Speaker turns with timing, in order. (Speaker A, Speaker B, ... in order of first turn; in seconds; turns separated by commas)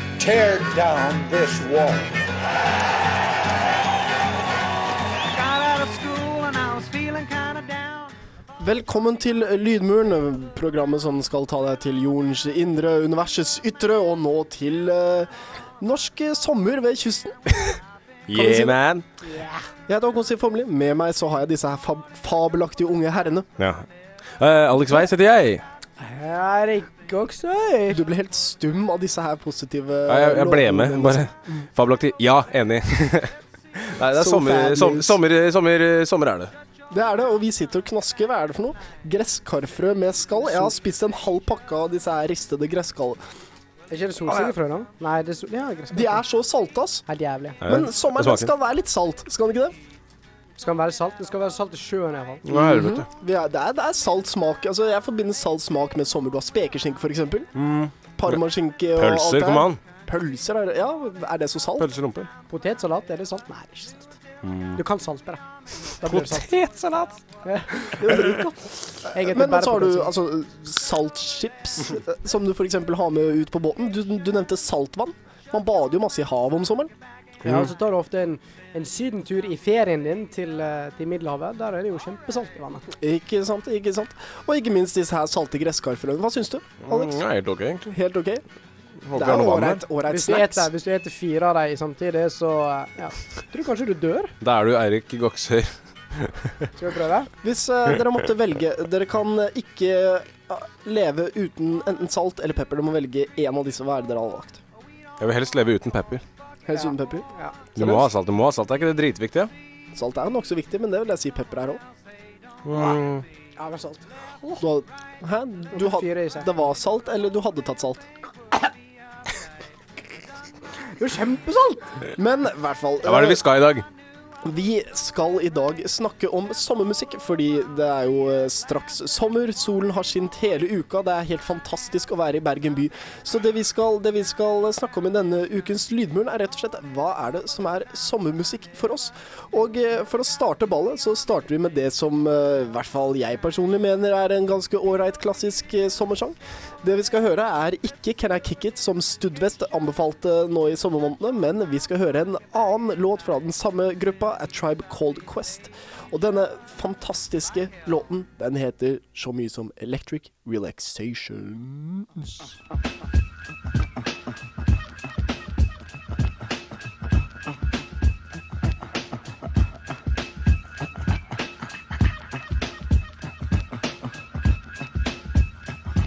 Speaker A: 0.2-2.1, Speaker B: 5.3-8.1, Speaker C: 8.6-17.8, Speaker D: 18.3-19.0, Speaker C: 18.3-18.8, Speaker E: 19.2-19.7, Speaker C: 19.9-23.5, Speaker D: 23.6-23.9, Speaker D: 24.4-25.6, Speaker E: 26.0-28.0, Speaker C: 27.9-31.6, Speaker D: 30.1-36.5, Speaker C: 34.1-35.2, Speaker C: 36.9-43.2, Speaker E: 43.9-46.2, Speaker C: 44.3-44.5, Speaker C: 45.9-47.0, Speaker E: 47.1-47.6, Speaker C: 47.6-49.8, Speaker D: 47.6-48.5, Speaker E: 50.6-52.4, Speaker D: 52.5-53.1, Speaker C: 52.5-57.5, Speaker D: 57.5-58.4, Speaker C: 58.1-61.9, Speaker D: 58.9-59.8, Speaker D: 61.8-62.3, Speaker E: 62.5-64.2, Speaker D: 64.4-64.8, Speaker E: 64.7-65.4, Speaker E: 66.0-66.5, Speaker D: 66.1-67.2, Speaker E: 67.4-68.5, Speaker D: 67.8-68.3, Speaker C: 67.9-68.5, Speaker E: 69.0-70.1, Speaker C: 69.0-76.9, Speaker D: 77.4-77.7, Speaker E: 77.4-82.9, Speaker C: 82.9-87.2, Speaker D: 86.8-87.9, Speaker C: 87.9-88.4, Speaker D: 89.0-89.8, Speaker C: 89.1-90.7, Speaker E: 90.0-94.3, Speaker D: 94.4-96.7, Speaker E: 96.8-97.3, Speaker C: 97.4-104.6, Speaker D: 105.2-106.2, Speaker C: 106.7-108.1, Speaker E: 106.7-107.6, Speaker D: 107.8-109.5, Speaker C: 109.9-111.8, Speaker D: 112.6-113.2, Speaker E: 113.6-114.6, Speaker C: 114.6-118.1, Speaker E: 115.7-116.5, Speaker E: 121.0-122.0, Speaker C: 122.1-123.4, Speaker D: 123.0-123.8, Speaker C: 124.4-162.4